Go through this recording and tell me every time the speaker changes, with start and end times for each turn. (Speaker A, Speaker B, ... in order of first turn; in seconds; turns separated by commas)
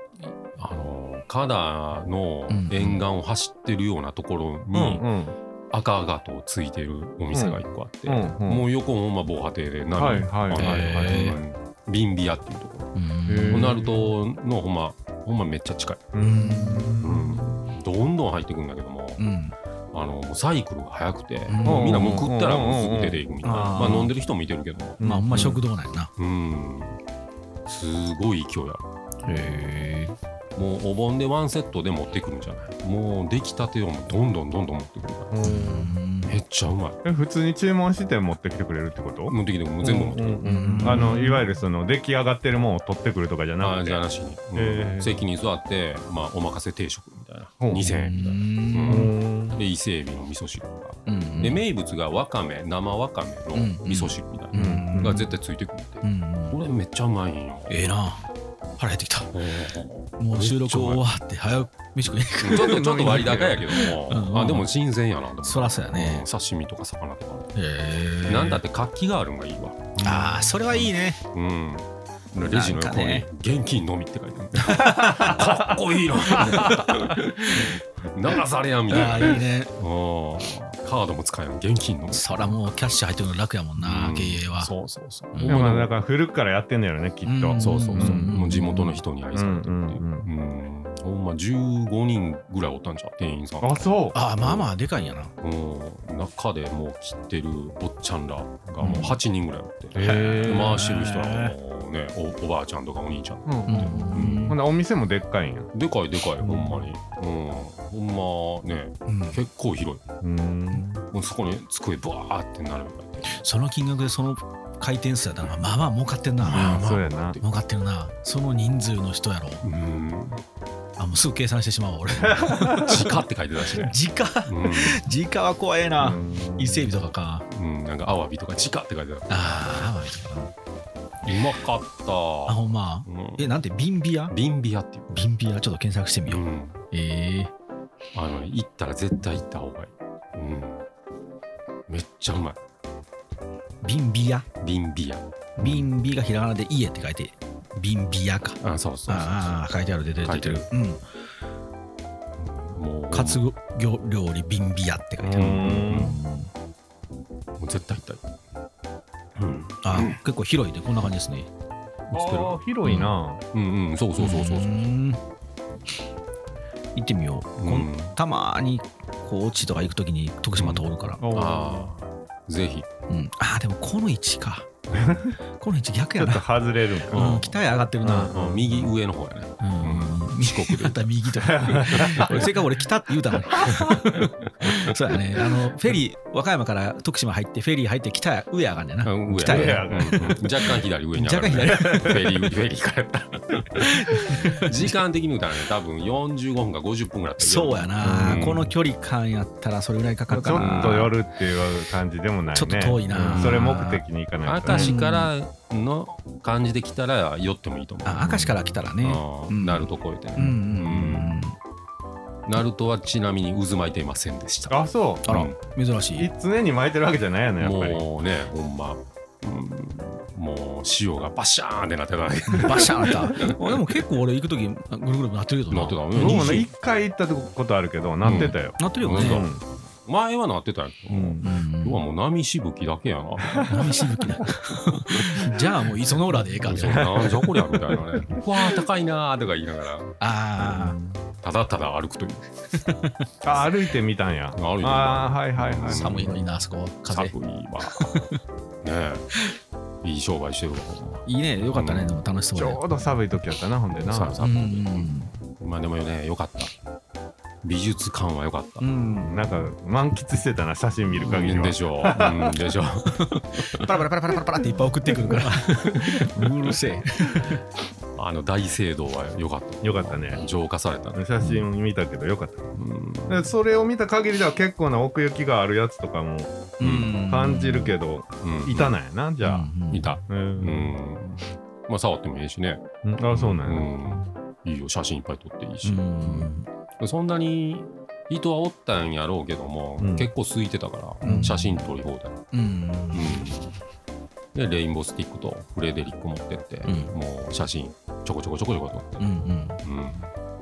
Speaker A: 0.6-5.1, Speaker B: 2.5-3.0, Speaker C: 4.7-5.4, Speaker A: 5.7-12.9, Speaker C: 7.3-8.7, Speaker C: 9.9-11.4, Speaker B: 10.5-11.4, Speaker B: 12.9-13.8, Speaker C: 13.3-14.2, Speaker A: 13.5-16.1, Speaker C: 16.1-17.7, Speaker B: 16.2-17.1, Speaker A: 17.0-19.3, Speaker B: 19.2-19.6, Speaker A: 19.9-25.6, Speaker B: 21.5-22.2, Speaker C: 21.6-24.1, Speaker B: 23.4-24.2, Speaker C: 25.0-25.6, Speaker B: 25.0-26.1, Speaker A: 26.2-27.0, Speaker A: 27.7-28.9, Speaker B: 29.2-30.1, Speaker A: 30.6-35.3, Speaker C: 35.3-35.9, Speaker B: 35.4-36.4, Speaker A: 36.3-37.0, Speaker C: 37.0-45.2, Speaker A: 39.3-41.3, Speaker B: 40.5-41.4, Speaker A: 43.6-57.8, Speaker C: 47.6-47.9, Speaker B: 47.8-49.1, Speaker C: 48.9-49.6, Speaker B: 51.1-51.6, Speaker B: 53.5-55.3, Speaker C: 54.5-55.2, Speaker B: 56.0-56.6, Speaker B: 57.7-58.2, Speaker B: 58.8-59.3, Speaker A: 59.3-61.1, Speaker B: 60.2-64.7, Speaker A: 62.4-67.5, Speaker C: 62.5-63.8, Speaker B: 65.4-66.3, Speaker B: 67.5-68.6, Speaker A: 68.2-82.5, Speaker B: 70.0-71.2, Speaker B: 72.4-73.3, Speaker B: 74.8-75.3, Speaker C: 74.9-75.5, Speaker B: 76.3-76.8, Speaker C: 76.3-76.8, Speaker B: 78.9-79.7, Speaker B: 82.1-84.7, Speaker A: 83.8-85.9, Speaker B: 85.3-85.8, Speaker C: 85.4-88.3, Speaker B: 87.2-89.0, Speaker A: 87.6-94.7, Speaker C: 89.3-90.3, Speaker C: 93.6-94.2, Speaker B: 94.1-95.3, Speaker A: 95.4-104.6, Speaker B: 98.8-99.2, Speaker C: 100.0-100.8, Speaker B: 100.0-101.6, Speaker C: 103.5-105.7, Speaker B: 103.7-104.6, Speaker A: 105.7-110.0, Speaker C: 106.4-106.9, Speaker B: 109.1-109.4, Speaker C: 110.2-111.0, Speaker A: 111.1-113.4, Speaker B: 113.3-116.8, Speaker A: 116.4-117.4, Speaker C: 116.5-117.4, Speaker B: 117.4-119.7, Speaker A: 119.6-120.4, Speaker B: 121.0-127.5, Speaker C: 122.3-122.9, Speaker A: 122.8-125.0, Speaker C: 126.0-127.0, Speaker A: 127.5-130.0, Speaker B: 129.3-130.5, Speaker A: 131.2-133.6, Speaker B: 132.5-134.3, Speaker A: 134.3-135.3, Speaker B: 135.1-137.5, Speaker A: 136.3-136.8, Speaker A: 138.1-140.8, Speaker A: 141.9-142.6, Speaker B: 143.8-144.5, Speaker A: 144.6-145.9, Speaker B: 145.6-151.0, Speaker A: 148.6-149.6, Speaker A: 150.2-150.7, Speaker A: 152.4-153.4, Speaker B: 153.1-156.5, Speaker C: 155.2-156.2, Speaker A: 155.3-156.2, Speaker A: 157.6-158.2, Speaker A: 159.4-160.2, Speaker B: 159.8-161.5, Speaker A: 162.1-162.6, Speaker C: 162.1-163.4, Speaker B: 162.8-163.2, Speaker A: 163.5-165.0, Speaker B: 164.2-165.2, Speaker B: 166.9-171.2, Speaker A: 167.6-168.2, Speaker A: 170.6-172.9, Speaker C: 171.2-171.9, Speaker B: 173.1-174.7, Speaker C: 174.9-175.3, Speaker B: 175.6-176.5, Speaker C: 176.2-177.4, Speaker B: 177.1-178.3, Speaker A: 177.1-177.6, Speaker C: 178.0-178.9, Speaker A: 178.3-181.1, Speaker B: 179.6-192.5, Speaker C: 181.4-182.5, Speaker A: 181.7-182.5, Speaker A: 183.5-183.8, Speaker A: 189.0-198.7, Speaker C: 189.4-190.5, Speaker C: 192.0-192.2, Speaker B: 193.8-194.9, Speaker B: 197.4-201.1, Speaker C: 200.3-205.3, Speaker A: 200.5-201.2, Speaker B: 202.5-204.0, Speaker A: 203.3-203.7, Speaker A: 204.4-211.5, Speaker B: 204.7-205.1, Speaker B: 208.1-211.6, Speaker A: 212.5-215.6, Speaker C: 214.7-215.3, Speaker B: 215.2-216.3, Speaker C: 216.2-218.0, Speaker A: 217.6-223.8, Speaker B: 222.5-226.7, Speaker A: 225.7-226.7, Speaker C: 226.1-229.6, Speaker A: 228.2-229.5, Speaker B: 228.3-229.5, Speaker A: 230.0-234.5, Speaker C: 231.1-231.4, Speaker B: 231.4-232.0, Speaker B: 233.6-237.2, Speaker A: 235.1-235.5, Speaker A: 236.1-240.2, Speaker C: 236.7-238.5, Speaker B: 240.2-241.0, Speaker C: 240.6-241.3, Speaker A: 241.4-242.5, Speaker B: 242.8-243.1, Speaker C: 243.4-246.2, Speaker A: 244.5-246.5, Speaker B: 245.8-248.4, Speaker A: 247.1-248.3, Speaker A: 248.8-249.2, Speaker A: 250.0-252.2, Speaker B: 251.3-252.8, Speaker C: 252.6-254.4, Speaker A: 254.0-256.7, Speaker B: 254.4-255.3, Speaker A: 257.6-258.9, Speaker B: 258.8-259.7, Speaker C: 259.2-262.6, Speaker A: 261.2-266.7, Speaker B: 263.1-267.6, Speaker A: 268.2-271.3, Speaker C: 269.8-270.4, Speaker C: 271.1-272.7, Speaker A: 272.7-273.5, Speaker C: 273.3-279.7, Speaker B: 276.8-278.0, Speaker A: 276.8-277.2, Speaker A: 278.4-279.0, Speaker B: 279.4-280.1, Speaker A: 279.9-292.5, Speaker C: 280.3-281.0, Speaker C: 283.0-284.2, Speaker B: 285.8-286.7, Speaker C: 290.0-290.3, Speaker B: 291.2-291.9, Speaker B: 292.5-293.4, Speaker A: 293.1-293.8, Speaker A: 294.6-299.3, Speaker B: 296.9-297.1, Speaker B: 299.2-299.8, Speaker A: 299.8-300.3